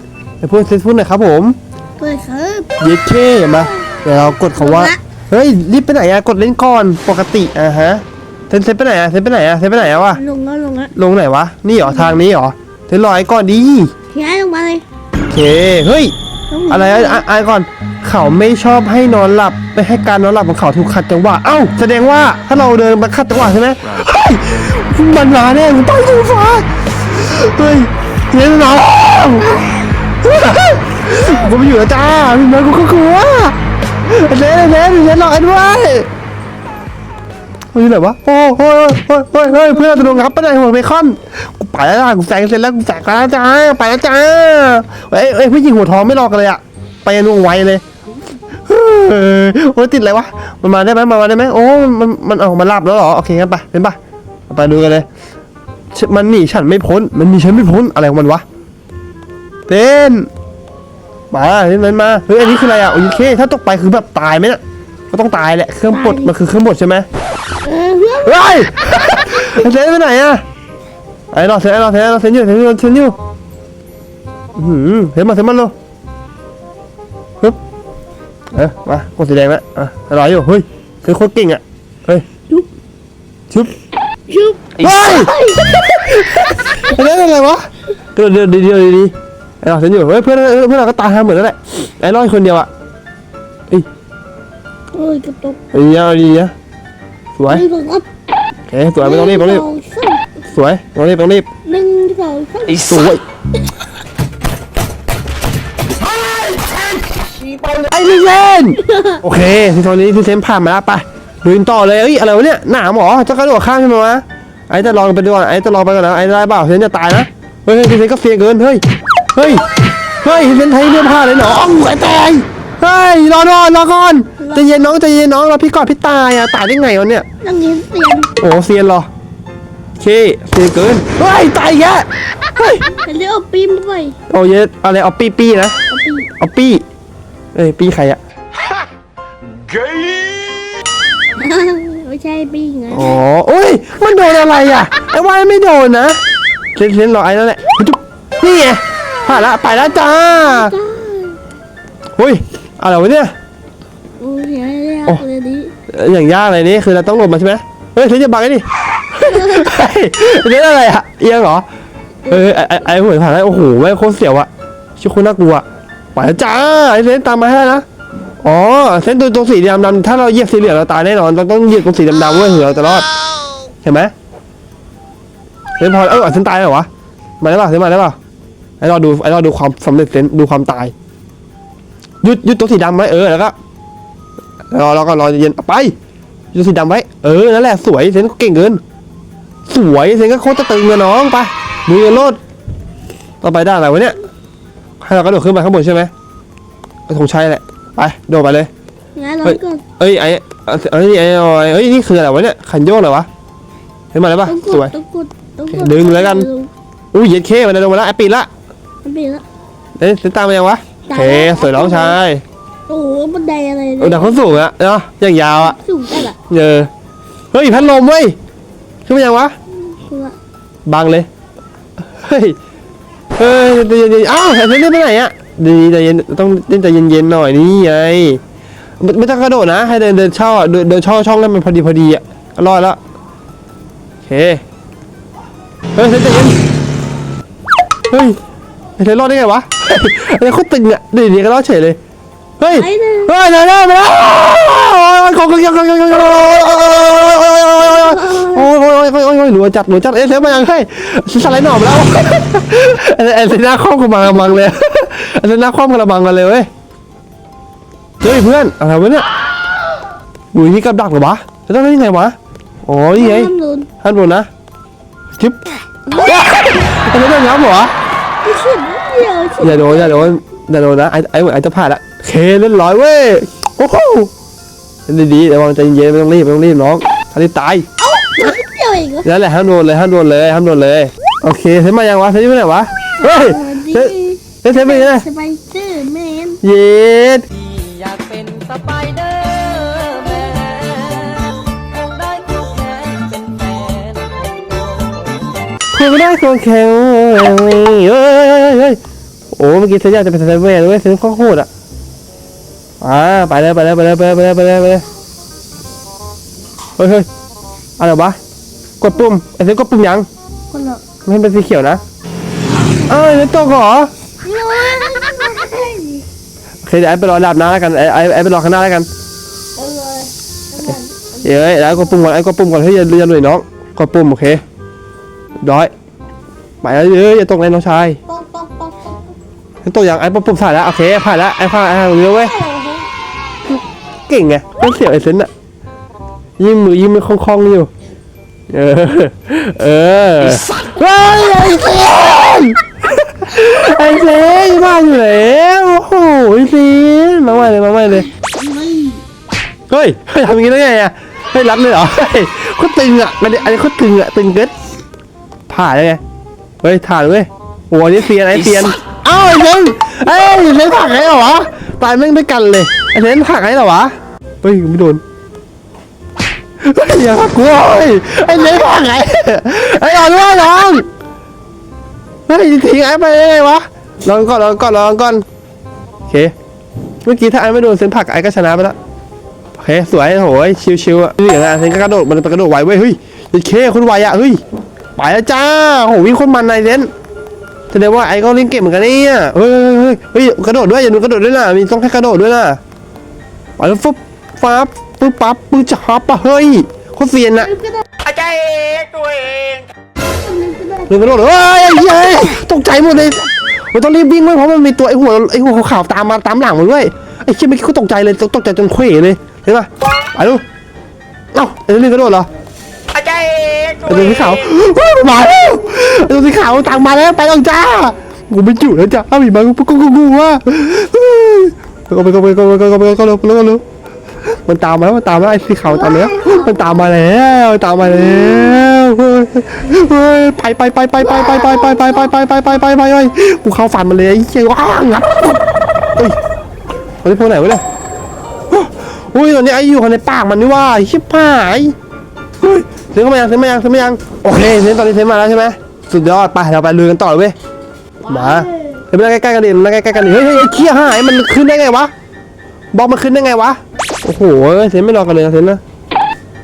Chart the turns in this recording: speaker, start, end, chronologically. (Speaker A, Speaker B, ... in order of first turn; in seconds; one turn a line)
Speaker A: 0.4-1.6
Speaker B: 2.0-2.7
Speaker A: 2.8-10.2
Speaker B: 4.5-5.0
Speaker B: 9.8-10.9
Speaker A: 10.9-13.9
Speaker B: 14.1-14.8
Speaker A: 15.3-16.1
Speaker B: 16.5-17.2
Speaker A: 16.7-36.1
Speaker A: 37.7-47.8
Speaker B: 39.6-40.2
Speaker A: 48.6-54.0
Speaker A: 54.5-55.1
Speaker A: 55.9-58.4
Speaker A: 59.7-60.3
Speaker A: 61.3-67.1
Speaker B: 65.9-66.3
Speaker B: 67.6-68.5
Speaker A: 68.2-70.4
Speaker A: 71.3-73.2
Speaker A: 74.5-75.7
Speaker A: 78.5-82.3
Speaker B: 84.3-87.0
Speaker A: 84.8-92.7
Speaker B: 94.9-95.6
Speaker A: 95.7-96.5
Speaker A: 97.4-97.6
Speaker B: 97.5-98.1
Speaker A: 98.7-99.7
Speaker B: 99.0-100.2
Speaker A: 100.5-101.5
Speaker B: 101.7-103.2
Speaker A: 102.9-103.2
Speaker A: 106.0-118.8
Speaker B: 108.8-109.2
Speaker A: 119.3-119.7
Speaker A: 120.2-127.3
Speaker B: 124.4-124.7
Speaker B: 127.4-128.3
Speaker A: 128.4-129.1
Speaker A: 130.0-132.9
Speaker B: 132.9-134.2
Speaker A: 134.3-135.8
Speaker B: 135.9-136.3
Speaker A: 136.4-136.8
Speaker A: 137.5-138.2
Speaker B: 141.4-143.2
Speaker A: 142.9-146.2
Speaker A: 146.8-150.8
Speaker B: 150.3-151.4
Speaker A: 152.2-153.3
Speaker B: 154.2-155.7
Speaker A: 155.9-161.7
Speaker B: 159.3-159.7
Speaker A: 162.3-167.8
Speaker A: 168.4-173.1
Speaker A: 173.8-174.1
Speaker A: 175.8-176.9
Speaker A: 177.4-178.2
Speaker A: 178.8-180.9
Speaker A: 182.2-183.6
Speaker A: 184.7-185.9
Speaker A: 186.5-188.8
Speaker A: 189.7-192.4
Speaker A: 193.4-194.2
Speaker A: 195.0-196.1
Speaker A: 197.1-198.7
Speaker B: 199.2-199.8
Speaker A: 199.4-203.3
Speaker A: 204.1-204.9
Speaker B: 204.4-206.7
Speaker A: 205.7-206.5
Speaker A: 207.1-208.5
Speaker B: 209.0-209.4
Speaker A: 210.0-212.4
Speaker B: 211.1-212.2
Speaker B: 212.9-214.6
Speaker A: 214.0-215.8
Speaker B: 215.6-216.4
Speaker A: 216.5-216.9
Speaker A: 217.5-218.4
Speaker A: 219.1-219.5
Speaker B: 219.9-220.4
Speaker A: 220.9-221.3
Speaker A: 222.1-222.6
Speaker A: 223.4-228.4
Speaker A: 229.0-233.0
Speaker A: 234.2-234.6
Speaker A: 236.0-236.6
Speaker A: 238.1-238.4
Speaker A: 239.0-242.0
Speaker A: 242.6-256.7
Speaker B: 242.7-243.3
Speaker B: 247.8-248.7
Speaker A: 258.2-259.3
Speaker A: 260.5-262.4
Speaker A: 262.9-264.5
Speaker B: 263.1-263.9
Speaker A: 265.4-267.9
Speaker B: 268.4-270.3
Speaker A: 269.6-274.3
Speaker A: 275.1-277.9
Speaker B: 278.0-279.3
Speaker A: 279.2-285.3
Speaker B: 283.2-286.6
Speaker A: 286.6-287.5
Speaker C: 287.5-289.9
Speaker B: 289.8-290.7
Speaker C: 290.4-295.5
Speaker A: 295.9-299.0
Speaker A: 299.6-301.7
Speaker A: 303.0-305.1
Speaker A: 307.0-307.3
Speaker A: 308.0-308.4
Speaker A: 309.0-310.3
Speaker B: 310.7-311.0
Speaker A: 311.2-312.0
Speaker A: 313.1-314.1
Speaker B: 314.4-316.3
Speaker A: 316.8-319.1
Speaker B: 319.8-322.3
Speaker A: 321.4-324.6
Speaker A: 325.6-325.9
Speaker A: 326.8-328.2
Speaker B: 328.3-329.4
Speaker A: 329.9-332.5
Speaker B: 332.4-333.1
Speaker A: 333.7-335.5
Speaker A: 336.6-337.9
Speaker A: 338.7-348.3
Speaker B: 348.3-349.2
Speaker A: 349.9-354.7
Speaker A: 355.7-356.2
Speaker A: 356.8-365.2
Speaker A: 366.8-371.1
Speaker A: 372.5-375.4
Speaker A: 376.3-376.5
Speaker A: 377.2-379.0
Speaker A: 379.8-384.6
Speaker A: 385.2-387.1
Speaker A: 387.9-392.8
Speaker A: 393.8-397.7
Speaker B: 397.7-398.1
Speaker C: 398.4-399.7
Speaker B: 400.2-402.2
Speaker A: 401.1-410.6
Speaker A: 411.5-412.5
Speaker A: 414.0-423.8
Speaker A: 424.7-435.6
Speaker B: 425.9-427.1
Speaker B: 428.2-428.8
Speaker B: 431.2-432.3
Speaker A: 437.2-437.8
Speaker A: 438.7-441.9
Speaker A: 442.6-447.6
Speaker B: 448.2-449.0
Speaker A: 448.3-452.1
Speaker A: 452.9-455.8